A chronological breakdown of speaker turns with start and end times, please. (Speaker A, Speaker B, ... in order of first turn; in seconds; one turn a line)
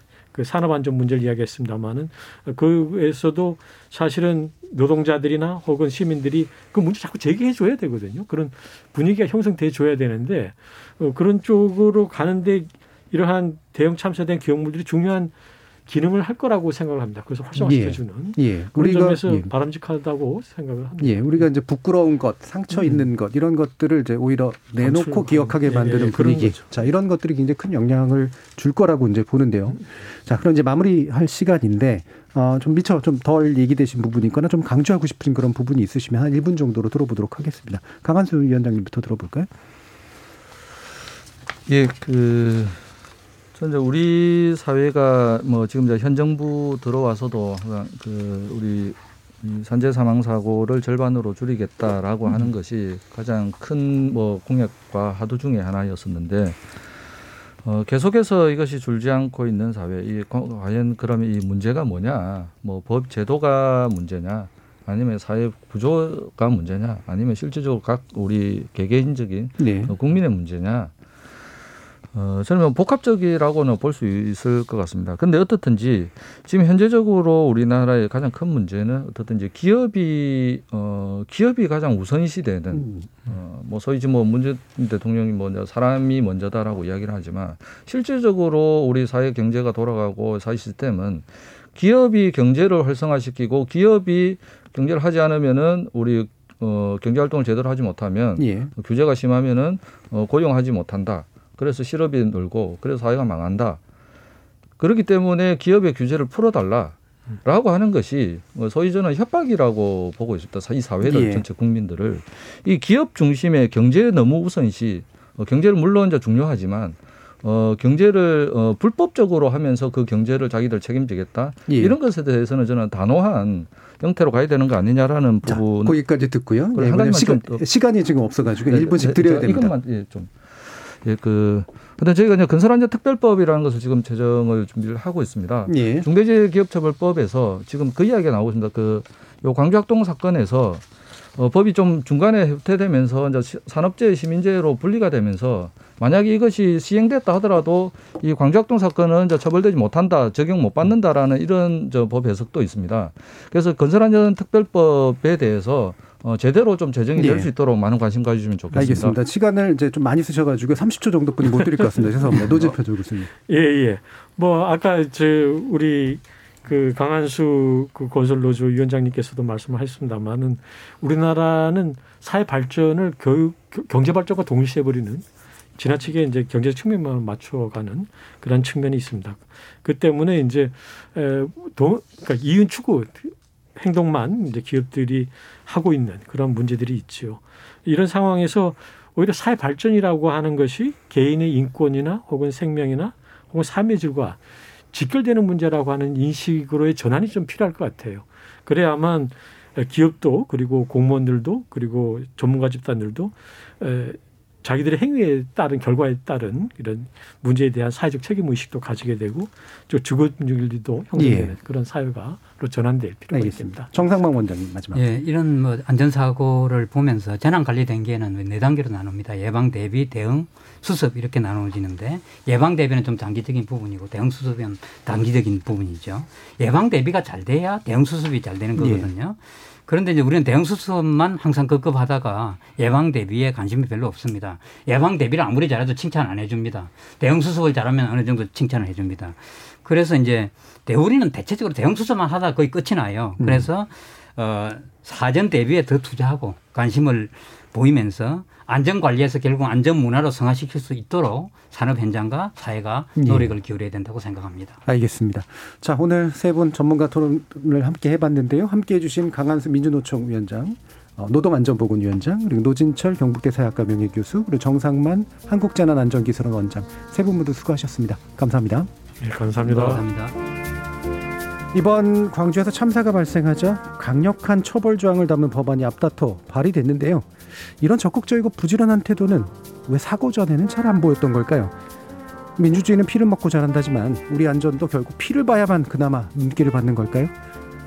Speaker A: 0.3-15.3
Speaker A: 15.8-21.5
Speaker B: 17.5-19.5
Speaker B: 21.0-39.5
Speaker A: 22.7-23.1
Speaker A: 24.8-26.9
Speaker C: 41.7-42.9
Speaker C: 43.5-56.8
Speaker C: 57.6-70.9
Speaker B: 69.6-69.9
Speaker C: 72.1-103.8
Speaker B: 98.4-98.7
Speaker C: 104.8-126.0
Speaker B: 111.0-111.4
Speaker B: 121.7-122.0
Speaker B: 125.5-129.7
Speaker C: 126.7-127.6
Speaker C: 128.6-140.8
Speaker B: 135.7-136.1
Speaker C: 141.3-159.1
Speaker B: 157.2-157.5
Speaker B: 158.7-163.3
Speaker A: 161.6-162.4
Speaker A: 163.5-175.2
Speaker A: 175.8-194.4
Speaker A: 194.9-214.0
Speaker B: 211.1-211.5
Speaker B: 213.3-215.0
Speaker D: 214.9-254.8
Speaker B: 228.8-229.1
Speaker B: 243.4-243.7
Speaker B: 253.2-253.5
Speaker B: 254.8-268.9
Speaker A: 269.2-270.0
Speaker D: 269.6-270.3
Speaker B: 271.7-281.7
Speaker B: 282.6-287.3